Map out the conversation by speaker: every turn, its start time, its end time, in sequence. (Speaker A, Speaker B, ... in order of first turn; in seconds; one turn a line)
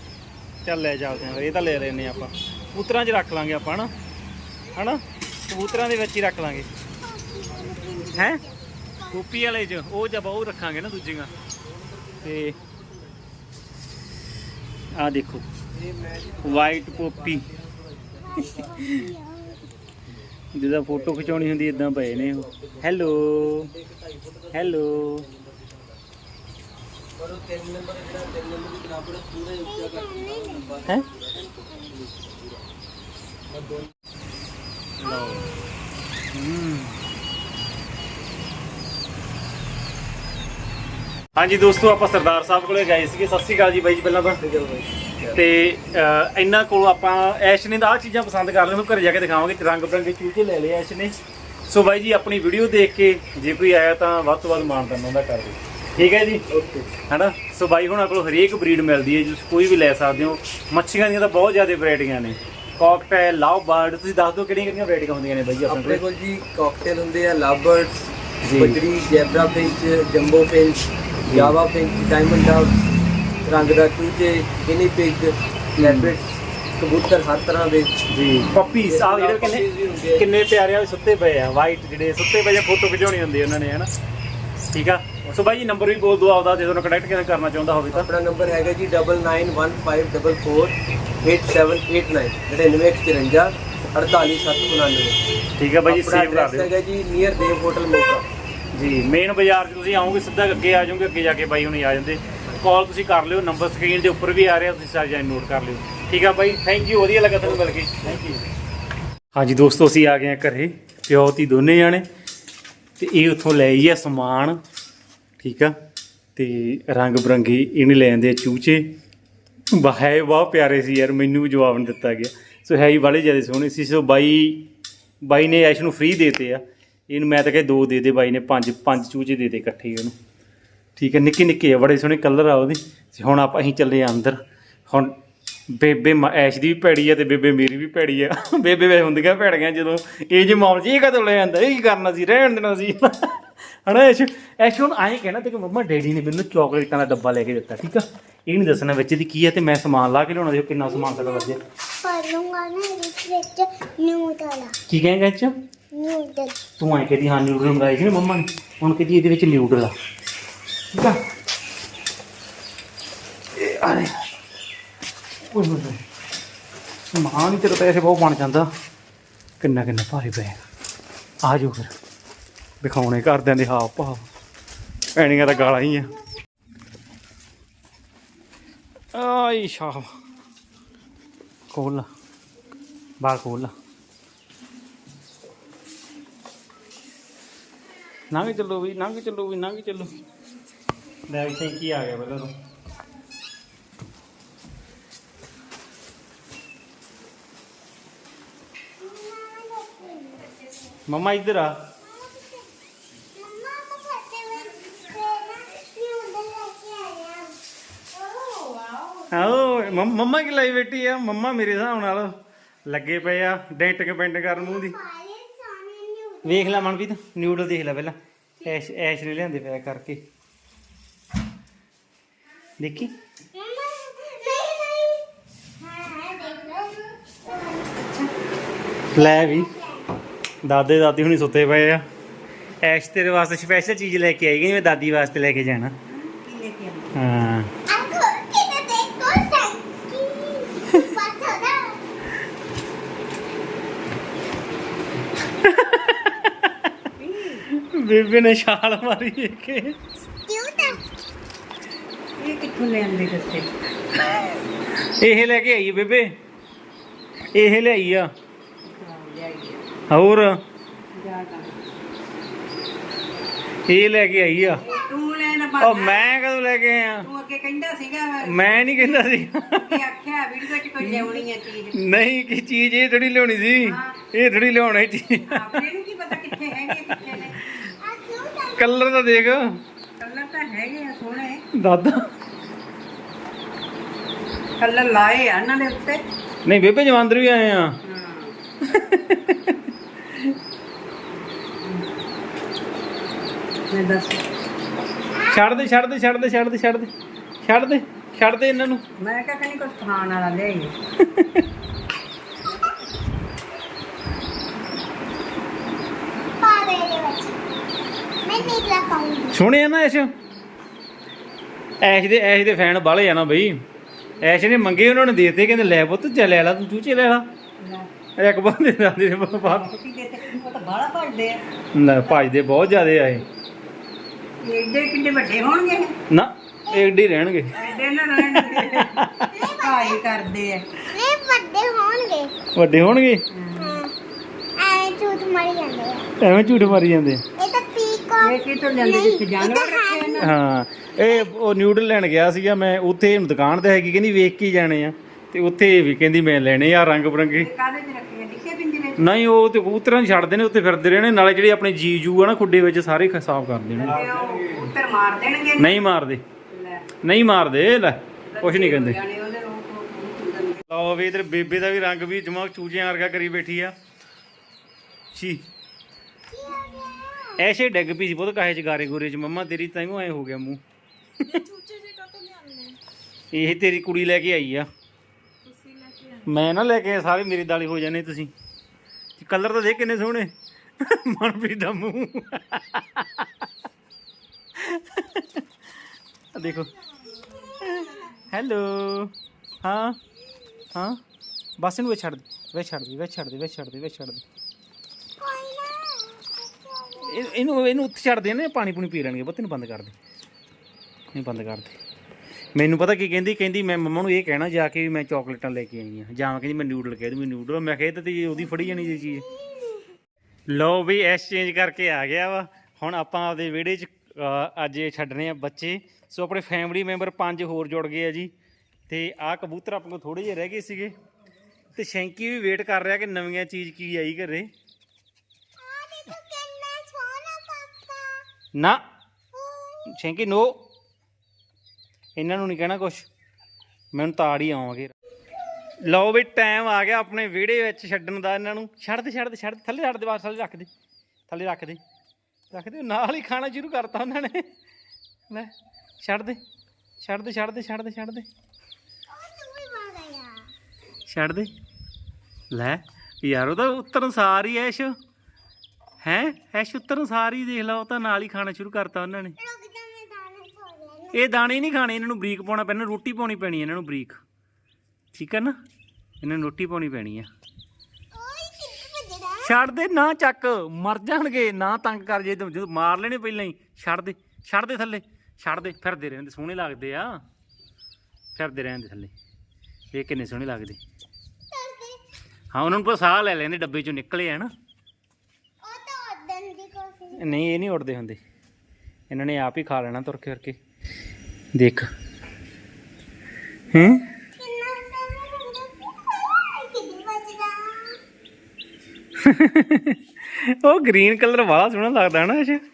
Speaker A: 0.6-3.9
Speaker A: 4.7-6.7
Speaker B: 7.0-9.3
Speaker C: 7.5-8.1
Speaker A: 8.1-8.4
Speaker A: 9.1-11.3
Speaker C: 11.4-13.2
Speaker A: 12.2-12.5
Speaker A: 14.9-15.5
Speaker C: 15.7-18.9
Speaker A: 16.4-17.4
Speaker B: 18.2-19.6
Speaker A: 18.8-19.1
Speaker C: 19.5-19.8
Speaker A: 20.5-23.7
Speaker C: 20.9-26.0
Speaker A: 24.5-25.2
Speaker C: 27.2-32.7
Speaker B: 29.6-31.9
Speaker C: 33.5-33.9
Speaker A: 35.0-35.5
Speaker B: 35.0-35.7
Speaker A: 36.3-36.9
Speaker A: 41.4-44.4
Speaker C: 44.4-45.4
Speaker A: 45.3-51.1
Speaker A: 51.7-56.4
Speaker C: 56.5-56.9
Speaker A: 57.1-66.0
Speaker C: 65.7-72.8
Speaker A: 68.4-68.8
Speaker A: 71.3-71.5
Speaker C: 73.4-76.2
Speaker A: 75.8-76.1
Speaker C: 76.8-77.9
Speaker A: 78.1-83.9
Speaker C: 78.7-80.3
Speaker A: 84.6-88.1
Speaker C: 87.9-95.2
Speaker A: 95.6-96.7
Speaker C: 95.8-98.2
Speaker A: 98.7-108.4
Speaker C: 107.5-108.2
Speaker A: 109.3-112.0
Speaker A: 113.0-114.6
Speaker A: 115.4-115.7
Speaker A: 116.3-118.8
Speaker A: 119.7-124.7
Speaker A: 125.2-130.1
Speaker A: 131.0-135.1
Speaker A: 135.7-151.6
Speaker B: 150.8-154.8
Speaker A: 154.9-155.5
Speaker B: 155.9-156.6
Speaker A: 156.8-159.9
Speaker A: 160.9-161.2
Speaker A: 163.5-164.2
Speaker A: 165.5-166.0
Speaker A: 167.1-168.7
Speaker A: 169.6-170.6
Speaker A: 171.4-171.9
Speaker A: 172.8-174.2
Speaker A: 175.1-176.1
Speaker B: 175.2-176.2
Speaker A: 179.1-180.1
Speaker A: 181.7-182.1
Speaker A: 183.2-183.7
Speaker A: 188.3-190.1
Speaker A: 191.3-192.5
Speaker B: 199.0-200.7
Speaker A: 201.1-201.7
Speaker B: 202.0-202.7
Speaker B: 203.3-207.6
Speaker B: 208.2-209.1
Speaker A: 209.3-212.3
Speaker A: 212.9-214.9
Speaker B: 214.4-216.9
Speaker A: 216.4-220.2
Speaker A: 222.8-223.1
Speaker B: 223.5-228.3
Speaker A: 229.1-229.7
Speaker B: 229.1-230.1
Speaker A: 230.6-232.0
Speaker A: 232.8-235.9
Speaker D: 236.1-237.1
Speaker A: 237.2-237.7
Speaker B: 237.8-242.0
Speaker A: 245.6-246.9
Speaker D: 247.2-247.7
Speaker A: 247.7-250.0
Speaker B: 250.3-251.0
Speaker D: 252.4-253.7
Speaker A: 255.0-256.3
Speaker A: 257.5-258.3
Speaker D: 258.8-259.9
Speaker A: 260.1-260.6
Speaker D: 261.1-261.8
Speaker A: 263.9-264.8
Speaker D: 264.8-266.2
Speaker A: 265.8-267.3
Speaker D: 267.2-272.1
Speaker A: 268.4-270.0
Speaker A: 271.0-275.8
Speaker D: 273.8-274.2
Speaker D: 275.5-277.7
Speaker B: 277.8-279.0
Speaker A: 278.8-279.8
Speaker D: 280.2-281.6
Speaker A: 281.7-282.3
Speaker D: 284.8-286.2
Speaker A: 286.6-287.9
Speaker D: 288.0-288.6
Speaker A: 288.8-290.5
Speaker D: 291.6-292.1
Speaker D: 293.9-294.4
Speaker A: 295.5-297.1
Speaker A: 297.6-299.0
Speaker D: 299.2-300.9
Speaker A: 301.2-301.6
Speaker B: 302.6-302.9
Speaker B: 306.6-307.6
Speaker B: 308.4-309.6
Speaker A: 309.5-310.3
Speaker A: 312.0-313.8
Speaker A: 314.4-317.5
Speaker D: 317.8-318.1
Speaker A: 318.4-319.9
Speaker D: 319.6-321.6
Speaker A: 321.9-323.4
Speaker D: 324.6-326.1
Speaker A: 326.3-327.7
Speaker D: 327.7-329.2
Speaker A: 328.5-329.5
Speaker B: 329.5-330.2
Speaker D: 329.8-330.8
Speaker B: 331.1-332.5
Speaker A: 332.8-333.4
Speaker D: 333.5-334.0
Speaker B: 333.8-334.1
Speaker B: 334.8-336.3
Speaker A: 336.4-337.4
Speaker B: 337.6-340.5
Speaker D: 338.4-340.5
Speaker A: 340.4-347.7
Speaker D: 347.6-349.3
Speaker A: 349.2-354.3
Speaker D: 354.0-356.0
Speaker C: 354.1-354.6
Speaker A: 355.8-356.4
Speaker D: 356.7-357.0
Speaker A: 357.2-359.2
Speaker D: 358.5-360.8
Speaker A: 360.9-363.9
Speaker A: 365.3-365.6
Speaker B: 366.5-367.6
Speaker A: 367.6-370.8
Speaker E: 371.5-372.9
Speaker A: 373.5-374.9
Speaker E: 375.6-376.4
Speaker A: 376.4-378.5
Speaker A: 379.4-383.7
Speaker A: 384.8-385.6
Speaker A: 386.5-386.9
Speaker B: 386.6-388.4
Speaker A: 387.8-390.2
Speaker A: 390.9-391.2
Speaker A: 391.8-394.4
Speaker B: 395.4-397.5
Speaker A: 397.2-400.1
Speaker A: 401.3-402.0
Speaker A: 402.7-409.4
Speaker B: 408.7-410.1
Speaker A: 410.7-418.5
Speaker A: 419.1-421.1
Speaker A: 421.9-424.7
Speaker B: 425.8-428.5
Speaker A: 428.7-429.0
Speaker B: 429.5-430.1
Speaker A: 430.1-430.8
Speaker A: 432.4-433.3
Speaker A: 434.1-435.1
Speaker A: 436.0-440.9
Speaker A: 441.5-442.0
Speaker A: 442.7-444.7
Speaker A: 445.5-446.6
Speaker A: 447.2-448.5
Speaker B: 449.3-450.7
Speaker A: 451.3-451.7
Speaker A: 452.7-455.1
Speaker A: 456.2-459.6
Speaker B: 459.6-461.5
Speaker A: 461.3-464.4
Speaker A: 465.3-465.7
Speaker A: 466.4-467.5
Speaker B: 468.3-469.7
Speaker A: 469.6-477.4
Speaker A: 478.6-479.3
Speaker A: 480.1-481.0
Speaker B: 481.7-482.2
Speaker A: 482.7-484.7
Speaker B: 485.8-487.5
Speaker A: 487.4-488.4
Speaker A: 489.3-490.8
Speaker A: 491.7-492.1
Speaker A: 493.9-494.2
Speaker B: 494.5-498.2
Speaker A: 499.4-502.8